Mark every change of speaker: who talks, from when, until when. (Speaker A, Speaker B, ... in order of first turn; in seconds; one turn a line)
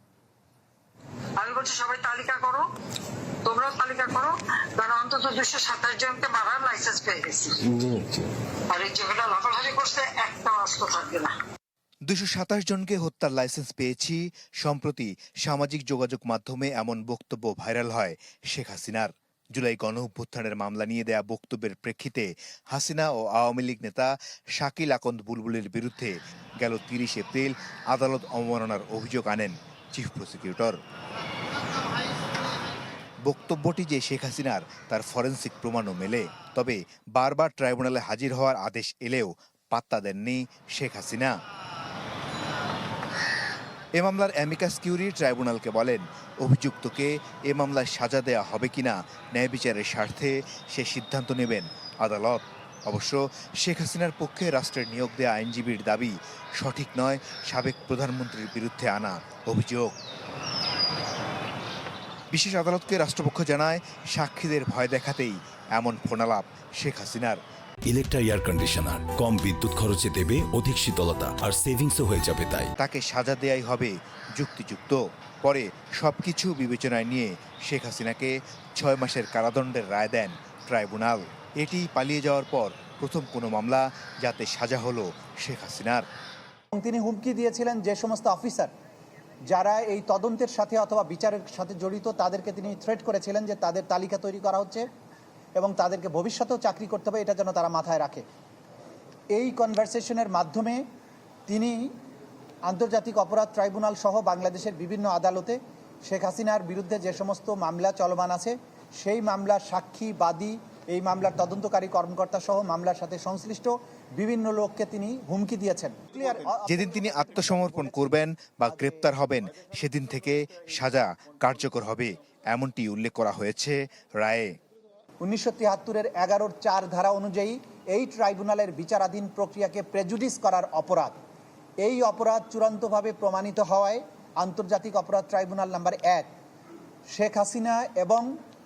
Speaker A: 1.4-2.6
Speaker A: 3.4-7.7
Speaker A: 8.7-11.3
Speaker B: 12.1-30.8
Speaker B: 33.2-41.3
Speaker B: 44.0-60.0
Speaker B: 62.3-67.4
Speaker C: 67.9-72.7
Speaker B: 72.8-86.0
Speaker D: 86.7-88.7
Speaker D: 89.5-94.9
Speaker D: 95.6-98.2
Speaker D: 99.3-100.8
Speaker D: 101.5-101.9
Speaker D: 102.7-118.1
Speaker B: 116.7-124.5
Speaker D: 118.7-119.0
Speaker D: 125.2-131.2
Speaker D: 131.8-136.3
Speaker D: 137.1-138.3